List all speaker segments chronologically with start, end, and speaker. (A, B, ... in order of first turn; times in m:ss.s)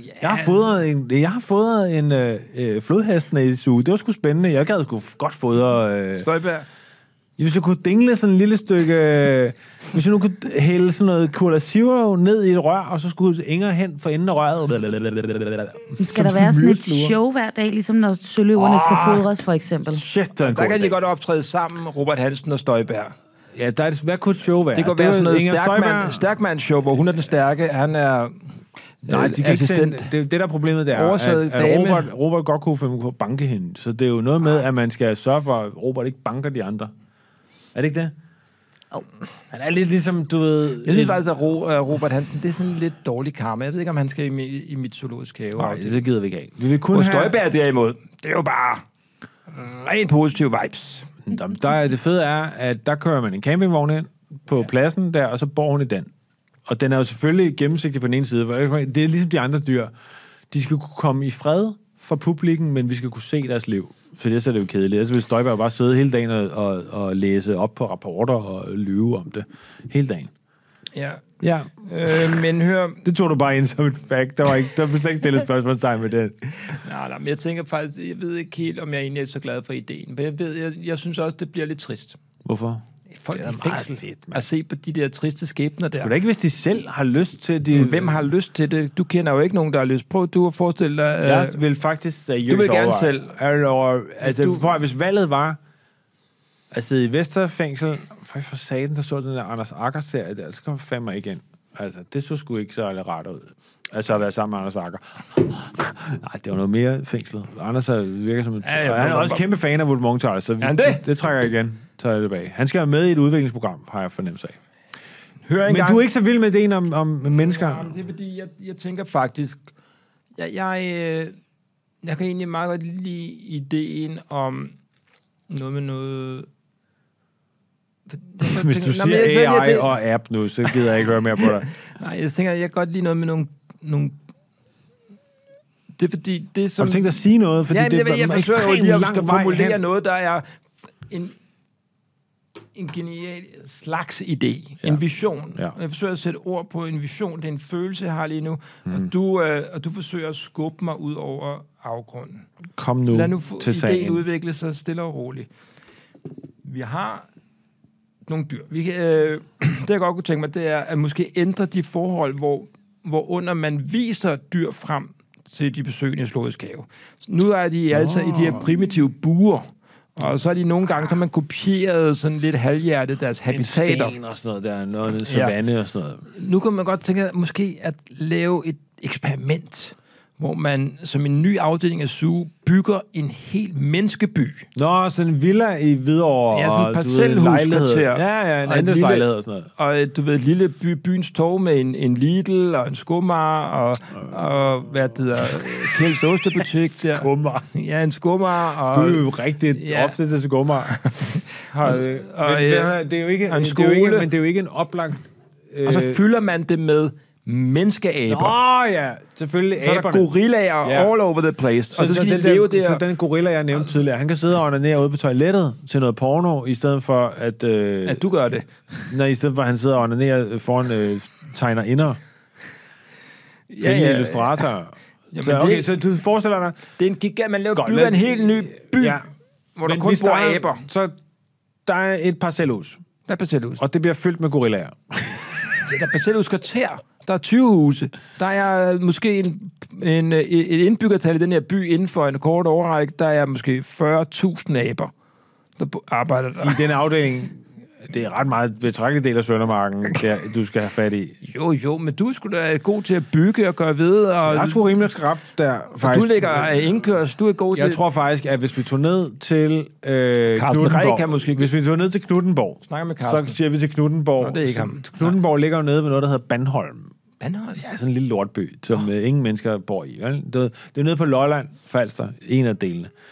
0:00.2-0:06.2 A
0:00.2-0:00.5 B
0:06.2-0:06.6 B
0:07.4-0:17.1 A
0:16.0-0:20.0 C
0:18.5-0:19.3 A
0:19.9-0:21.0 A
0:20.4-0:23.1 B
0:23.5-0:26.2 A
0:24.7-0:28.4 B
0:29.0-0:30.1 B
0:29.1-0:36.9 A
0:30.9-0:32.1 B
0:37.7-0:38.1 A
0:39.5-0:41.2 A
0:40.8-0:46.1 B
0:45.6-0:47.4 A
0:46.9-0:48.8 B
0:49.5-0:51.1 B
0:51.3-0:56.1 A
0:56.7-0:59.9 A
1:00.5-1:10.3 A
1:10.9-1:11.2 B
1:11.4-1:12.4 A
1:11.8-1:13.0 B
1:13.0-1:16.5 A
1:16.7-1:22.2 B
1:22.4-1:24.4 A
1:23.1-1:26.1 B
1:26.0-1:28.2 A
1:27.7-1:31.6 B
1:31.2-1:35.6 A
1:32.5-1:33.3 B
1:34.2-1:34.6 B
1:36.7-1:54.6 A
1:48.6-1:49.5 B
1:50.6-1:51.0 B
1:55.4-1:56.0 B
1:55.6-1:57.9 A
1:57.2-1:59.6 B
2:00.4-2:01.3 B
2:02.0-2:04.7 B
2:05.5-2:06.5 B
2:08.1-2:09.9 B
2:08.4-2:11.7 A
2:10.6-2:14.1 B
2:16.0-2:20.4 B
2:16.8-2:19.8 A
2:21.1-2:21.3 B
2:22.7-2:32.5 B
2:32.8-2:34.2 A
2:33.1-2:35.5 B
2:36.6-2:37.2 B
2:38.3-2:54.1 B
2:47.9-2:48.7 A
2:53.5-2:56.2 A
2:55.2-2:55.5 B
2:56.3-3:04.7 B
3:04.8-3:09.7 A
3:06.5-3:20.1 B
3:16.6-3:17.7 A
3:18.9-3:26.2 A
3:20.9-3:24.3 B
3:25.8-3:28.6 B
3:28.3-3:30.3 A
3:29.8-3:33.0 B
3:30.8-3:31.1 A
3:31.9-3:38.2 A
3:38.0-3:39.0 B
3:39.1-3:42.2 A
3:43.7-3:44.6 B
3:43.8-3:46.8 A
3:45.3-3:45.9 B
3:47.0-3:49.2 B
3:47.7-3:49.2 A
3:49.8-3:50.8 B
3:49.8-3:51.1 A
3:51.8-3:53.0 A
3:53.3-3:53.8 B
3:53.8-3:55.6 A
3:55.8-4:05.1 B
4:05.8-4:06.8 B
4:06.6-4:11.4 A
4:11.4-4:14.8 B
4:14.4-4:16.9 A
4:16.0-4:18.0 B
4:17.7-4:27.1 A
4:20.5-4:21.7 B
4:22.9-4:23.6 B
4:24.4-4:25.4 B
4:27.4-4:27.8 B
4:27.8-4:33.1 A